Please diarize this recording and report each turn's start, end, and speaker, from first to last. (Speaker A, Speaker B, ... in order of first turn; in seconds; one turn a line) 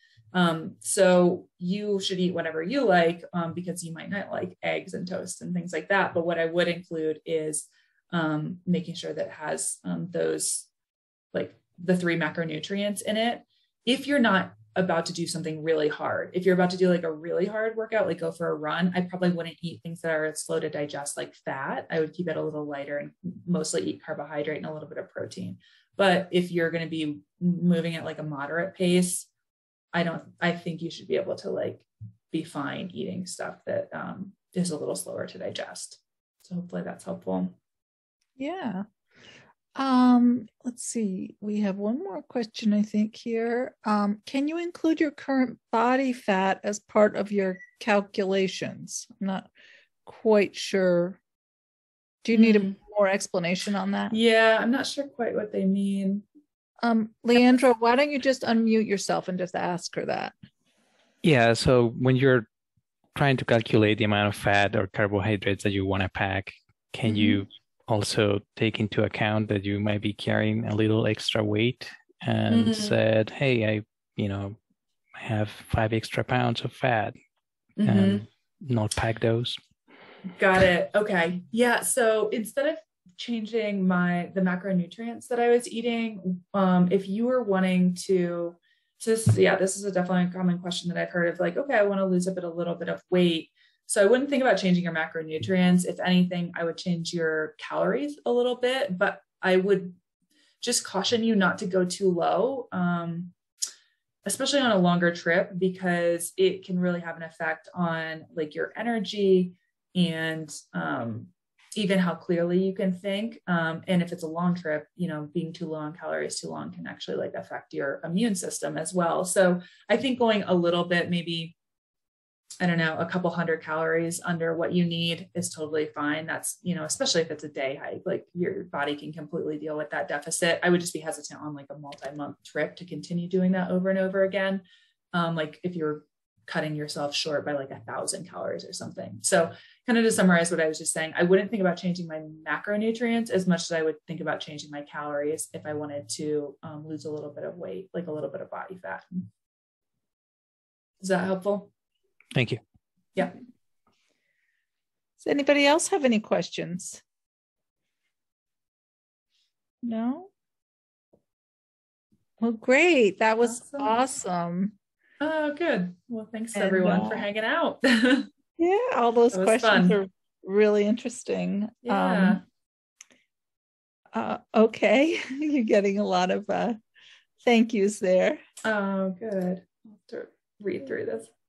Speaker A: 0.3-10.7
Speaker A: 11.3-29.3
Speaker A: 29.9-37.6
Speaker B: 38.4-38.9
Speaker B: 39.8-49.5
Speaker B: 50.1-51.2
Speaker B: 52.2-54.2
Speaker A: 52.3-52.8
Speaker A: 54.1-56.2
Speaker B: 56.8-60.3
Speaker C: 61.2-62.5
Speaker C: 63.1-74.6
Speaker A: 67.1-67.4
Speaker A: 72.5-72.9
Speaker C: 75.2-77.2
Speaker A: 77.8-78.2
Speaker C: 77.8-79.6
Speaker A: 80.4-100.0
Speaker A: 100.6-103.3
Speaker A: 104.2-121.6
Speaker A: 122.6-149.3
Speaker A: 151.0-151.7
Speaker C: 152.3-152.6
Speaker B: 155.2-157.0
Speaker B: 159.8-160.3
Speaker B: 162.4-164.8
Speaker A: 163.4-164.0
Speaker A: 165.2-168.3
Speaker B: 166.6-167.3
Speaker B: 168.6-172.4
Speaker A: 169.3-170.0
Speaker A: 171.8-172.4
Speaker B: 174.1-176.8
Speaker B: 177.4-178.4
Speaker A: 178.6-181.3